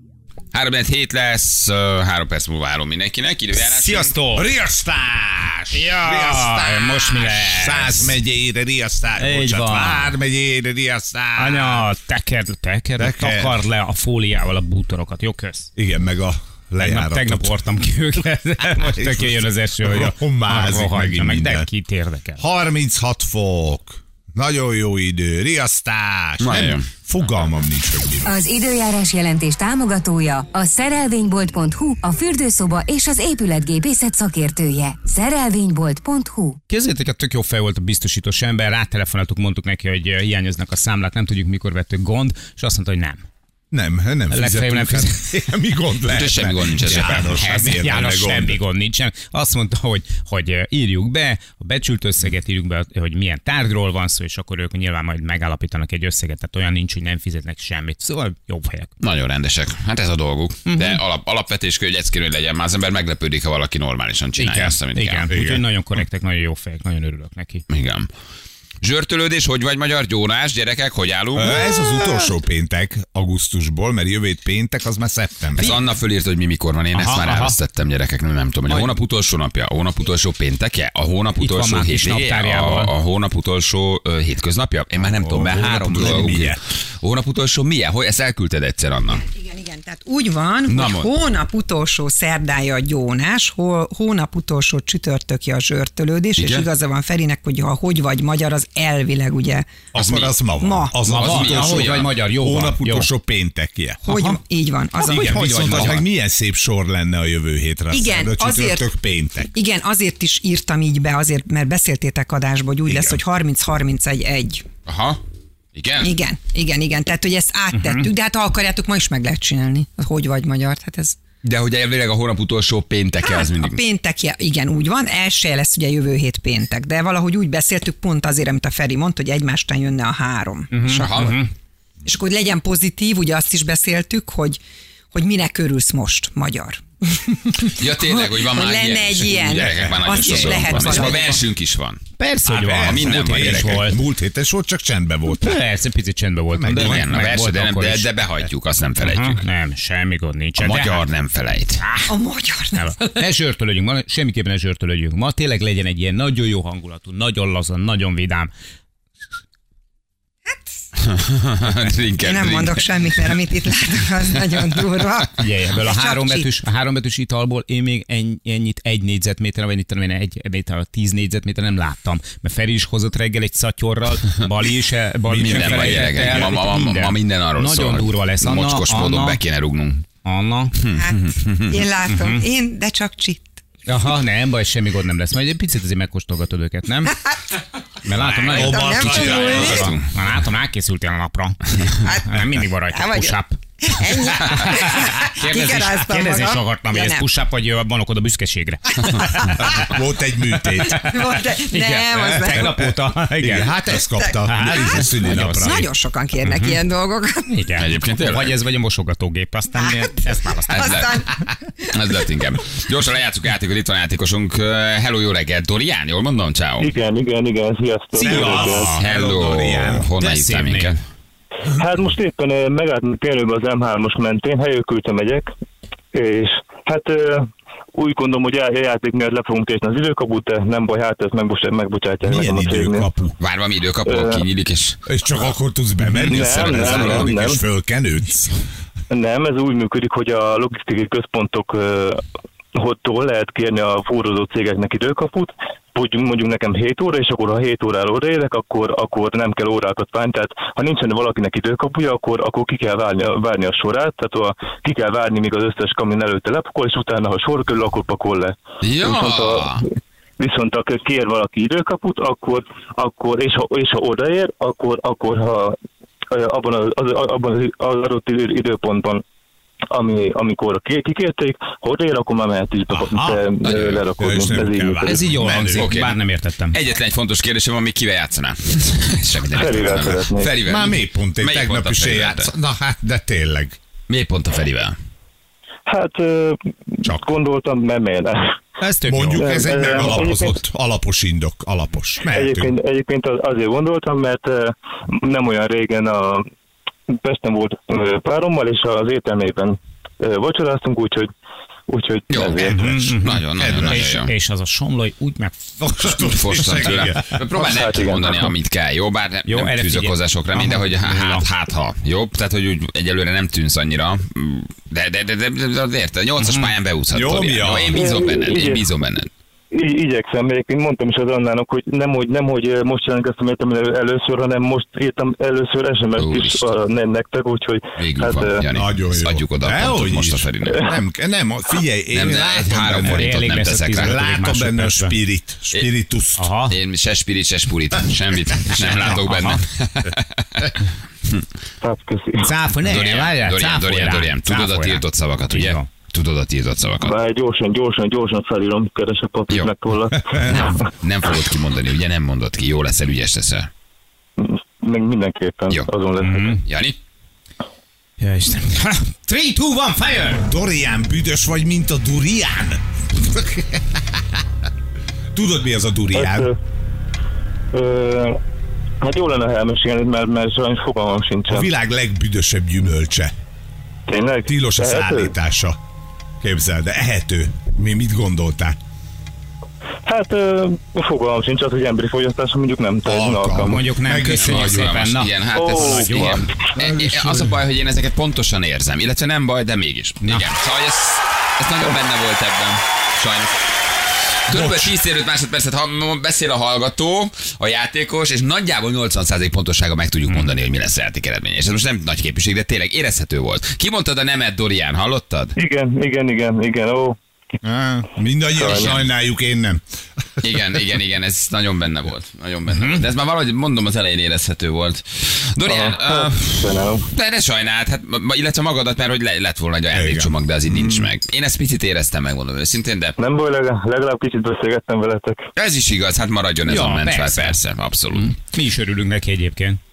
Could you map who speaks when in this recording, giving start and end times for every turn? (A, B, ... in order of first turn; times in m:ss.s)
0:00.5-0:04.1 A
0:03.5-0:04.5 B
0:04.3-0:11.9 C
0:05.7-0:08.2 B
0:09.2-0:10.2 B
0:11.4-0:15.7 B
0:13.0-0:13.6 C
0:15.8-0:17.6 C
0:16.8-0:22.4 B
0:18.6-0:21.7 C
0:22.4-0:28.3 C
0:26.4-0:26.9 A
0:28.2-0:36.6 D
0:36.7-0:43.2 B
0:43.7-0:48.6 C
0:44.3-0:45.3 B
0:46.1-0:47.6 A
0:46.9-0:58.9 B
0:59.0-1:05.3 A
1:00.6-1:01.0 B
1:04.4-1:07.6 B
1:05.3-1:05.6 C
1:07.7-1:08.1 A
1:08.8-1:11.6 A
1:11.3-1:15.8 C
1:15.6-1:29.2 A
1:16.9-1:17.5 B
1:21.4-1:22.9 B
1:25.2-1:26.6 C
1:29.1-1:39.9 E
1:30.7-1:31.1 A
1:36.4-1:36.7 A
1:39.9-1:44.0 C
1:40.0-1:40.3 A
1:40.6-1:41.0 E
1:41.0-1:43.1 B
1:41.1-1:42.1 A
1:44.0-1:44.4 B
1:44.1-1:45.9 E
1:45.0-1:46.0 B
1:45.0-1:49.5 C
1:47.9-1:48.9 E
1:49.5-1:54.6 E
1:52.9-1:53.2 C
1:54.8-1:55.2 A
1:55.7-1:56.1 A
1:56.0-2:01.2 E
1:57.7-1:58.1 B
2:01.4-2:03.8 A
2:03.2-2:10.8 E
2:10.7-2:11.5 B
2:10.8-2:11.4 A
2:12.0-2:14.6 E
2:15.1-2:21.4 E
2:17.6-2:22.0 A
2:22.2-2:24.0 B
2:22.4-2:25.6 C
2:22.7-2:23.9 A
2:25.3-2:28.1 B
2:26.5-2:27.3 C
2:26.7-2:29.4 A
2:29.0-2:31.0 B
2:30.6-2:31.8 A
2:31.8-2:32.1 B
2:32.1-2:33.1 E
2:32.7-2:38.5 B
2:41.0-2:43.3 A
2:42.2-2:46.5 E
2:44.3-2:44.8 A
2:45.4-2:59.4 B
2:55.3-2:56.5 C
2:55.4-3:00.0 A
3:00.2-3:00.8 B
3:00.8-3:01.8 A
3:00.9-3:03.6 E
3:02.1-3:02.4 B
3:03.9-3:07.2 B
3:08.0-3:19.8 B
3:08.2-3:10.0 C
3:08.3-3:10.0 E
3:09.0-3:10.0 A
3:11.9-3:17.2 E
3:19.0-3:19.8 E
3:19.6-3:21.1 C
3:20.8-3:23.8 B
3:20.9-3:22.8 E
3:22.5-3:25.8 C
3:24.2-3:27.7 E
3:24.4-3:25.9 B
3:26.4-3:26.8 B
3:27.5-3:31.0 B
3:27.8-3:28.5 A
3:29.8-3:30.2 E
3:30.7-3:31.9 E
3:30.7-3:31.2 A
3:31.9-3:36.9 A
3:36.8-3:38.9 F
3:38.2-3:40.1 C
3:38.2-3:39.0 B
3:38.7-3:41.0 A
3:40.2-3:40.9 B
3:41.7-3:45.5 F
3:46.1-3:53.1 F
3:52.2-3:53.4 C
3:53.4-3:55.0 A
3:54.0-3:54.4 F
3:55.0-3:58.5 C
3:56.2-3:57.3 A
3:56.2-3:57.6 F
3:59.1-4:19.8 F
4:18.8-4:19.8 A
4:20.4-4:25.8 F
4:26.3-4:29.2 F
4:29.9-4:35.2 F
4:32.9-4:33.4 C
4:33.6-4:34.0 A
4:34.2-4:35.9 C
4:35.0-4:36.8 B
4:35.7-4:36.2 A
4:36.7-4:42.5 A
4:39.5-4:40.6 F
4:40.6-4:43.8 C
4:44.1-4:44.9 A
4:45.9-4:48.6 F
4:48.8-4:49.5 B
4:49.0-4:52.7 C
4:49.3-4:50.6 F
4:52.2-4:56.5 F
4:57.1-5:01.3 F
5:01.9-5:02.8 F
5:02.3-5:04.3 A
5:02.6-5:05.6 B
5:03.6-5:04.1 C
5:05.8-5:07.4 C
5:06.2-5:19.3 A
5:07.5-5:08.5 F
5:09.5-5:11.4 B
5:16.4-5:16.7 B
5:17.1-5:18.1 C
5:17.9-5:18.8 F
5:19.7-5:28.6 F
5:26.2-5:26.6 A
5:28.0-5:30.9 A
5:28.7-5:36.5 C
5:32.1-5:34.2 A
5:33.0-5:35.1 B
5:36.4-5:36.7 B
5:36.7-5:40.7 A
5:38.7-5:39.6 B
5:41.8-5:42.5 F
5:42.4-5:45.9 B
5:42.8-5:47.1 A
5:47.0-5:50.8 F
5:50.3-5:50.6 C
5:50.5-5:53.7 A
5:54.4-5:56.5 F
5:56.2-5:56.6 B
5:56.6-5:57.0 A
5:58.2-6:00.5 B
6:00.4-6:04.4 C
6:05.3-6:06.5 C
6:06.1-6:06.6 F
6:07.7-6:08.4 F
6:09.0-6:11.7 F
6:11.5-6:13.3 C
6:14.1-6:15.3 F
6:14.5-6:15.8 C
6:16.4-6:18.8 C
6:20.0-6:23.8 F
6:23.0-6:25.0 C
6:23.6-6:26.4 B
6:24.2-6:33.6 A
6:25.5-6:26.5 F
6:26.8-6:27.6 C
6:34.5-6:45.5 A
6:34.5-6:34.9 C
6:40.3-6:40.5 B
6:45.6-6:47.2 F
6:47.6-6:49.8 C
6:48.5-6:48.9 F
6:48.6-6:49.1 A
6:50.4-7:03.1 A
6:52.7-6:53.1 B
6:55.6-6:57.1 F
6:59.9-7:01.1 C
7:03.2-7:05.5 F
7:05.6-7:08.3 A
7:06.6-7:07.6 B
7:08.1-7:09.8 B